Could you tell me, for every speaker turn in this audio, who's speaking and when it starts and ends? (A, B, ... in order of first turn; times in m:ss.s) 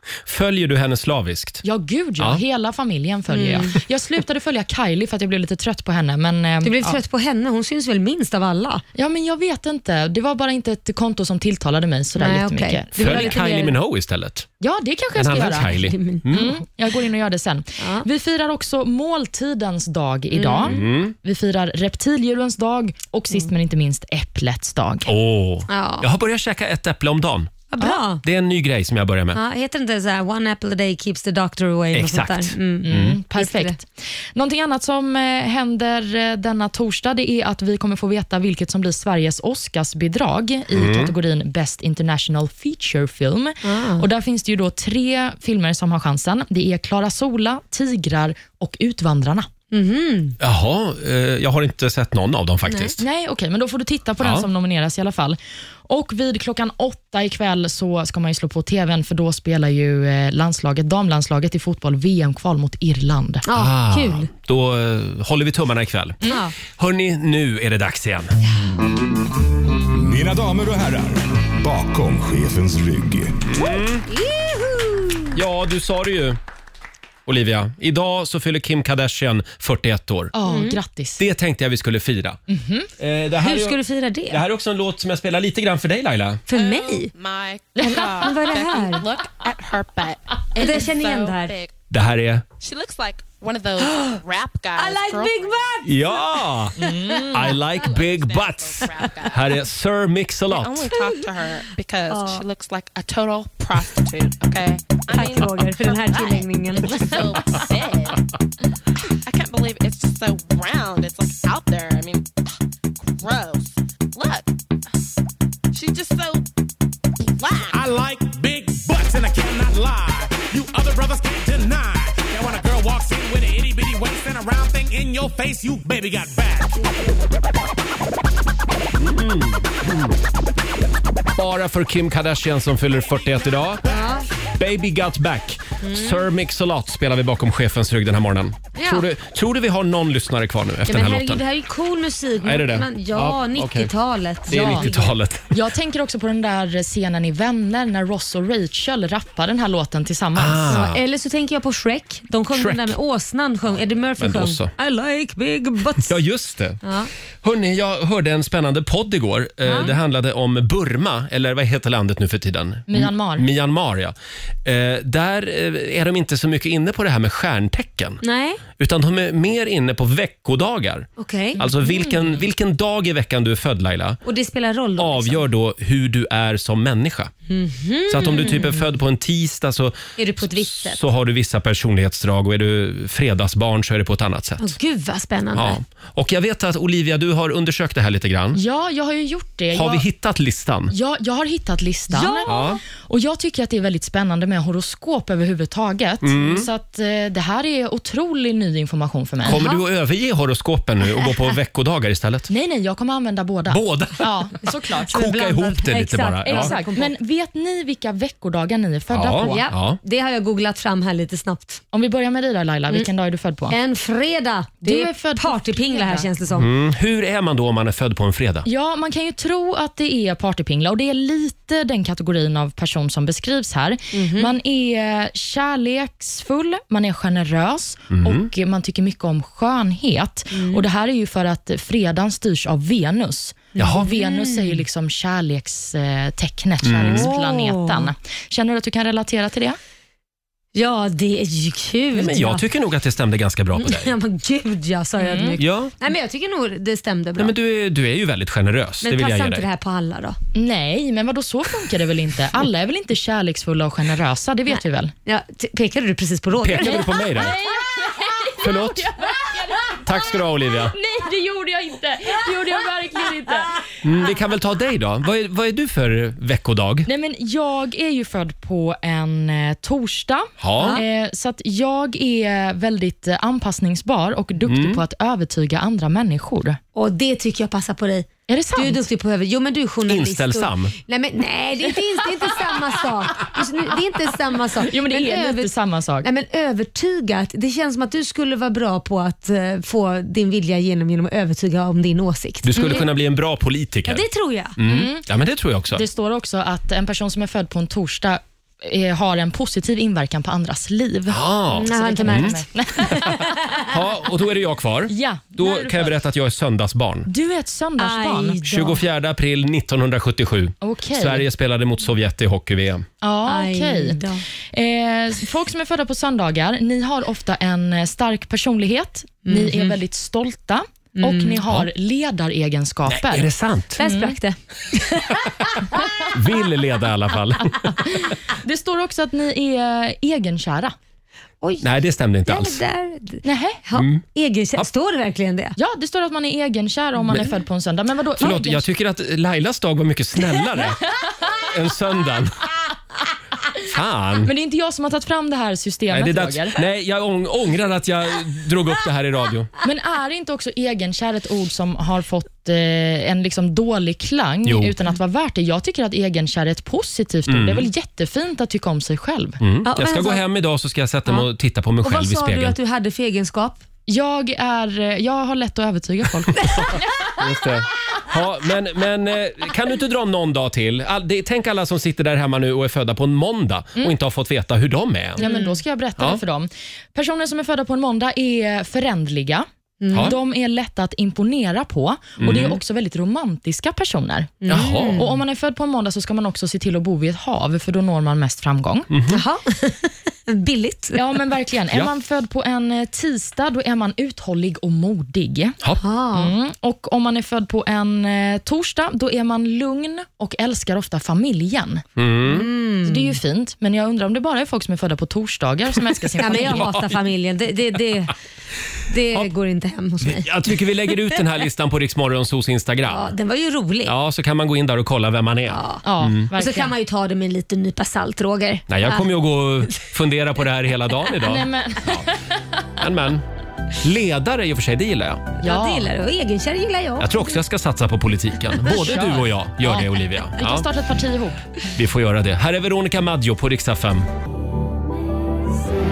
0:00.2-0:01.6 A
0:01.6-0:07.0 B
0:03.3-0:03.7 C
0:06.6-0:08.8 C
0:09.0-0:13.5 B
0:12.2-0:13.7 C
0:12.9-0:14.5 A
0:14.6-0:15.7 B
0:15.1-0:16.6 A
0:15.6-0:16.3 C
0:16.3-0:25.1 B
0:17.8-0:18.0 C
0:20.3-0:20.8 C
0:20.6-0:21.1 A
0:25.1-0:27.6 A
0:25.7-0:26.1 C
0:27.7-0:28.2 C
0:28.2-0:29.4 A
0:29.3-0:33.8 C
0:31.9-0:33.2 A
0:32.8-0:49.5 B
0:40.7-0:41.1 A
0:43.6-0:44.0 C
0:49.7-0:50.4 C
0:50.4-0:53.0 A
0:52.6-0:53.0 C
0:53.0-1:03.4 B
0:54.2-0:54.5 A
1:03.4-1:04.3 C
1:03.5-1:08.3 A
1:06.2-1:06.5 C
1:09.9-1:13.5 D
1:13.4-1:14.1 A
1:14.1-1:15.3 C
1:15.3-1:16.4 A
1:17.2-1:20.3 A
1:20.3-1:21.2 B
1:20.4-1:20.8 C
1:21.2-1:22.4 A
1:22.5-1:22.9 B
1:23.0-1:26.4 A
1:23.4-1:24.4 C
1:26.5-1:27.1 C
1:26.5-1:31.7 E
1:27.8-1:28.3 B
1:28.2-1:29.0 C
1:30.6-1:31.6 C
1:31.9-1:32.4 A
1:32.6-1:35.6 E
1:33.8-1:34.2 C
1:34.8-1:36.2 C
1:35.8-1:40.9 A
1:36.8-1:37.6 C
1:36.8-1:37.4 B
1:37.4-1:39.5 E
1:40.5-1:48.2 E
1:42.1-1:42.4 C
1:45.1-1:47.2 C
1:49.2-1:52.3 E
1:53.0-1:54.5 E
1:55.7-1:56.4 E
1:57.2-1:57.8 E
1:57.7-2:06.9 F
2:09.0-2:10.2 A
2:11.4-2:13.8 A
2:13.8-2:14.3 C
2:14.6-2:21.4 A
2:15.8-2:16.2 C
2:18.8-2:19.0 C
2:20.9-2:25.1 C
2:22.4-2:23.9 A
2:24.4-2:25.6 A
2:24.5-2:24.9 B
2:25.5-2:30.8 B
2:30.3-2:31.0 A
2:30.7-2:36.1 C
2:32.5-2:33.0 A
2:34.2-2:34.7 A
2:36.0-2:36.8 A
2:36.8-2:37.1 C
2:37.4-2:48.2 A
2:39.6-2:39.9 C
2:42.9-2:43.5 B
2:48.2-2:48.6 C
2:48.7-2:54.2 A
2:51.2-2:52.4 C
2:54.2-2:55.4 C
2:55.0-2:57.3 A
2:57.5-2:58.9 C
2:58.1-3:04.8 A
3:00.2-3:01.0 C
3:04.6-3:05.8 C
3:05.5-3:08.6 A
3:08.5-3:10.0 B
3:09.7-3:10.9 A
3:10.9-3:19.6 B
3:12.1-3:12.8 C
3:12.5-3:12.8 A
3:16.2-3:16.7 A
3:19.4-3:22.5 A
3:19.4-3:19.8 C
3:22.5-3:25.2 B
3:23.7-3:24.3 A
3:25.1-3:26.7 A
3:25.1-3:27.1 C
3:26.4-3:29.7 B
3:29.1-3:30.0 A
3:29.4-3:31.8 C
3:31.9-3:33.8 B
3:33.7-3:36.7 C
3:34.8-3:36.3 B
3:36.6-3:38.6 A
3:38.6-3:59.8 B
3:44.1-3:44.5 C
3:48.1-3:48.5 A
3:50.5-3:50.8 C
3:53.7-3:54.8 C
3:53.8-3:54.0 A
3:56.8-3:57.3 A
3:57.0-3:58.1 C
4:00.7-4:02.6 C
4:02.1-4:04.1 A
4:03.8-4:07.5 C
4:05.2-4:05.6 B
4:05.6-4:05.9 A
4:07.4-4:09.6 A
4:09.0-4:10.4 C
4:10.5-4:15.1 B
4:14.7-4:17.2 C
4:16.6-4:17.6 A
4:16.8-4:20.0 B
4:18.6-4:19.2 A
4:20.0-4:21.0 A
4:20.9-4:23.8 B
4:24.0-4:27.1 A
4:27.0-4:36.8 B
4:30.6-4:31.0 A
4:30.8-4:31.0 C
4:34.6-4:35.0 A
4:36.9-4:45.7 C
4:38.5-4:39.0 B
4:40.1-4:40.9 A
4:44.8-4:46.3 B
4:46.2-4:53.1 C
4:52.6-4:54.2 A
4:54.1-4:54.8 C
4:54.8-4:56.0 A
4:54.8-4:55.2 B
4:55.9-5:03.6 B
5:01.3-5:02.6 A
5:01.7-5:03.6 C
5:03.8-5:07.3 A
5:05.1-5:06.1 B
5:07.2-5:08.6 B
5:08.0-5:09.0 C
5:08.6-5:13.0 A
5:10.8-5:11.4 B
5:13.2-5:14.2 B
5:13.4-5:14.4 C
5:14.7-5:24.4 B
5:19.4-5:20.0 C
5:21.2-5:21.6 C
5:23.1-5:24.0 A
5:24.0-5:25.3 C
5:26.3-5:28.0 A
5:28.2-5:30.9 B
5:31.8-5:32.8 A
5:32.4-5:35.8 C
5:33.4-5:33.8 B
5:33.9-5:34.2 A
5:35.8-5:38.8 B
5:37.2-5:37.5 A
5:38.4-5:41.0 A
5:41.6-5:42.6 A
5:43.9-5:44.5 A
5:44.4-5:46.8 B
5:46.1-5:49.7 A
5:49.8-5:59.6 B
5:54.6-5:54.9 A
5:57.5-5:57.9 A
5:59.6-6:02.8 A
5:59.8-6:00.4 C
6:02.0-6:03.8 C
6:04.1-6:07.0 B
6:07.4-6:15.5 A
6:15.4-6:29.1 B
6:15.4-6:15.7 C
6:20.0-6:20.3 C
6:20.1-6:20.4 A
6:22.4-6:22.8 A
6:24.6-6:25.3 C
6:24.7-6:25.3 A
6:29.1-6:29.4 A
6:29.3-6:31.2 C
6:31.1-6:35.8 B
6:36.0-6:36.5 C
6:36.3-6:42.0 B
6:42.2-6:42.7 A
6:42.4-6:43.4 C
6:43.0-6:46.9 B
6:46.4-6:47.2 A
6:46.4-6:48.3 C
6:49.1-6:51.3 C
6:50.2-6:53.3 A
6:53.1-6:54.2 C
6:54.0-6:56.5 A
6:55.7-6:59.3 C
6:56.0-6:56.9 B
6:58.9-7:02.2 A
7:01.4-7:02.3 B
7:03.0-7:03.4 A
7:04.0-7:05.5 A
7:05.6-7:07.5 C
7:05.6-7:06.1 B
7:07.2-7:10.9 A
7:08.8-7:11.6 B
7:11.9-7:14.3 A